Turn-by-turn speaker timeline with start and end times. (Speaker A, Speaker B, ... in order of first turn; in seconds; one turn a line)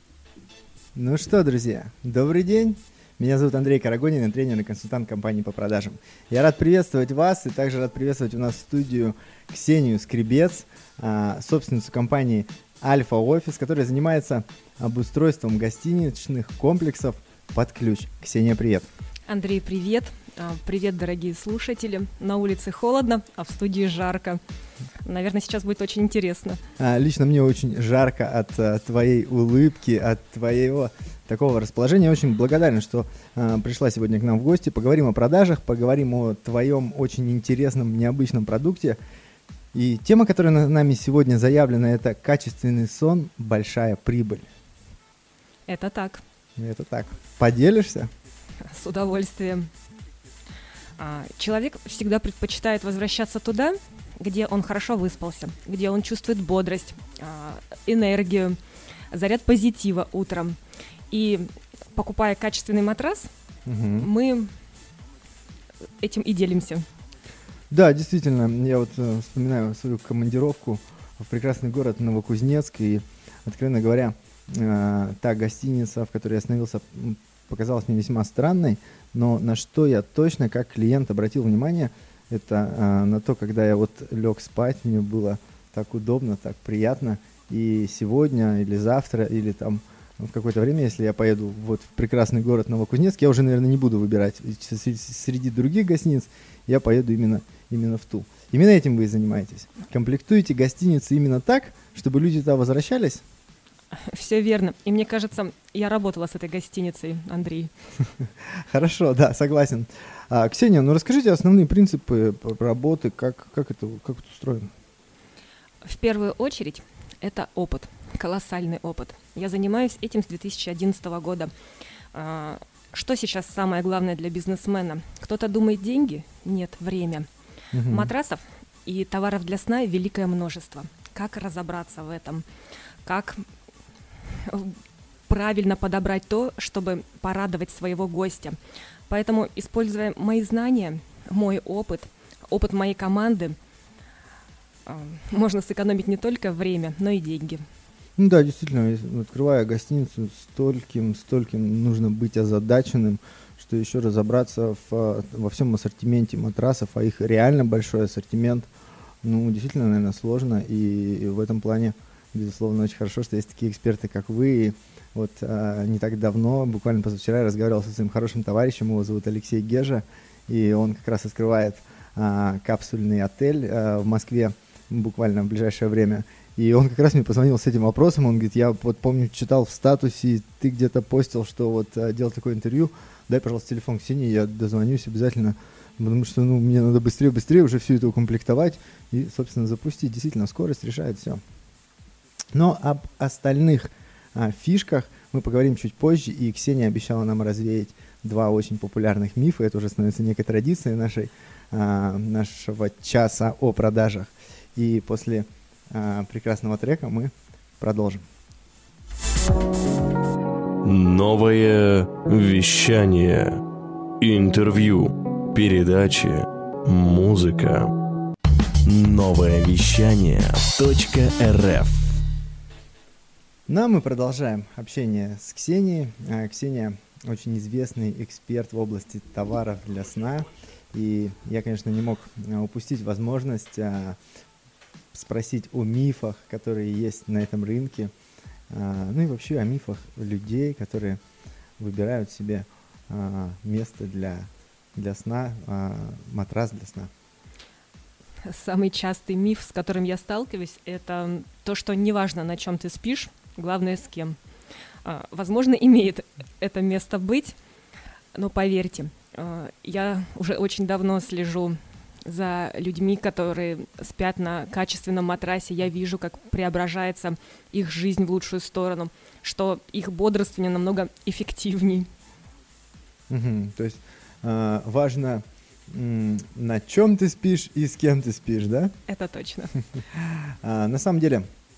Speaker A: 0.9-18.9
Speaker B: 19.3-24.4
Speaker B: 25.0-26.6
Speaker A: 26.8-39.0
Speaker A: 39.7-44.5
Speaker B: 45.7-46.2
Speaker A: 46.6-48.1
Speaker B: 48.6-49.7
Speaker B: 51.0-58.6
Speaker B: 59.1-60.6
Speaker B: 61.1-63.3
Speaker A: 63.6-64.1
Speaker B: 64.0-64.5
Speaker B: 66.0-66.8
Speaker A: 67.7-103.2
Speaker B: 103.9-107.7
Speaker A: 108.7-114.7
Speaker B: 115.8-121.5
Speaker B: 122.1-127.3
Speaker A: 127.7-128.1
Speaker B: 127.9-132.4
Speaker B: 133.0-133.4
Speaker B: 134.3-134.7
Speaker B: 135.3-138.6
Speaker B: 139.1-143.6
Speaker B: 144.8-147.6
Speaker A: 148.2-158.7
Speaker A: 159.2-191.4
Speaker A: 192.5-208.2
Speaker C: 210.8-213.6
Speaker C: 214.2-217.9
Speaker C: 218.8-222.2
Speaker A: 223.7-234.2
Speaker A: 235.1-238.1
Speaker A: 238.7-241.2
Speaker A: 241.8-247.1
Speaker B: 248.4-254.4
Speaker B: 255.0-257.5
Speaker B: 258.3-272.1
Speaker A: 273.3-278.9
Speaker B: 279.1-279.8
Speaker A: 280.1-281.4